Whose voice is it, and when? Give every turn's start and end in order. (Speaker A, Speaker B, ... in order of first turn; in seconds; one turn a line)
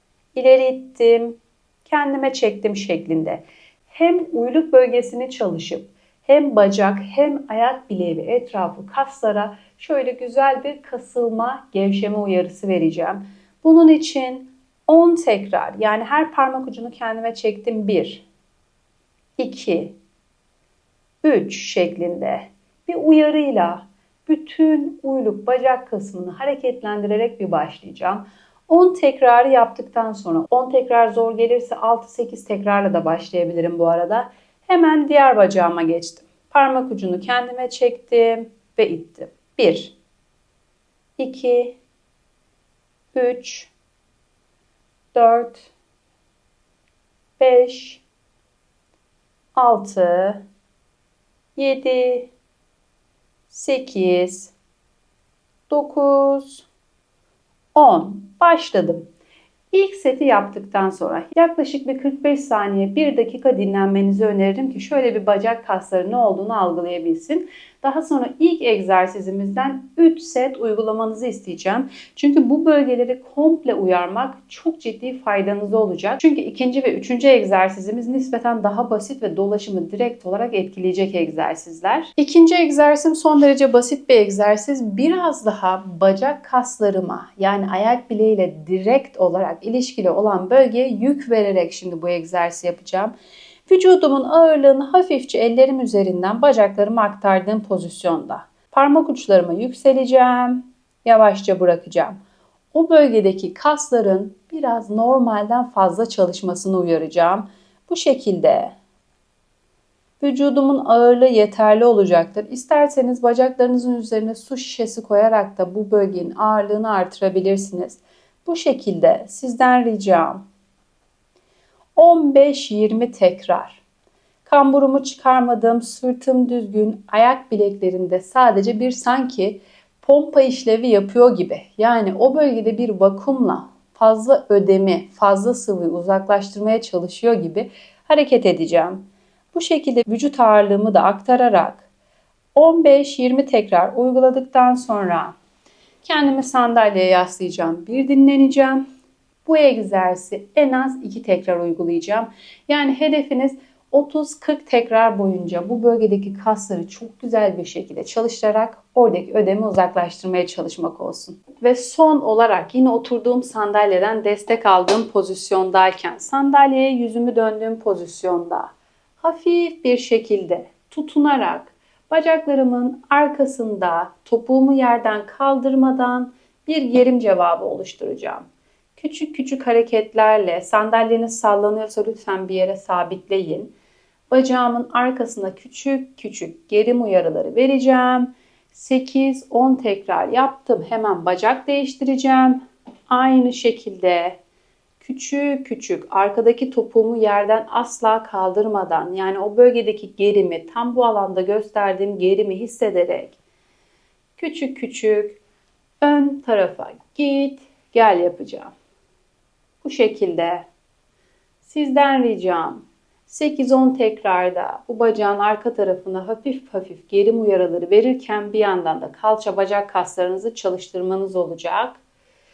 Speaker A: 0.3-18.2
Speaker A: 19.4-19.9
Speaker A: 21.2-40.0
Speaker A: 41.2-41.8
Speaker A: 43.1-43.7
Speaker A: 45.1-45.7
Speaker A: 47.4-48.0
Speaker A: 49.5-50.4
Speaker A: 51.5-52.3
Speaker A: 53.5-54.5
Speaker A: 55.7-56.6
Speaker A: 57.7-59.1
Speaker A: 59.7-93.1
Speaker A: 93.7-102.2
Speaker A: 102.7-108.7
Speaker A: 110.2-120.4
Speaker A: 122.0-123.8
Speaker A: 124.5-141.9
Speaker A: 142.6-145.3
Speaker A: 146.0-148.8
Speaker A: 149.4-178.4
Speaker A: 179.0-183.7
Speaker A: 184.3-192.6
Speaker A: 193.1-194.4
Speaker A: 195.0-203.4
Speaker A: 204.4-205.4
Speaker A: 206.0-208.7
Speaker A: 209.8-210.7
Speaker A: 211.6-222.0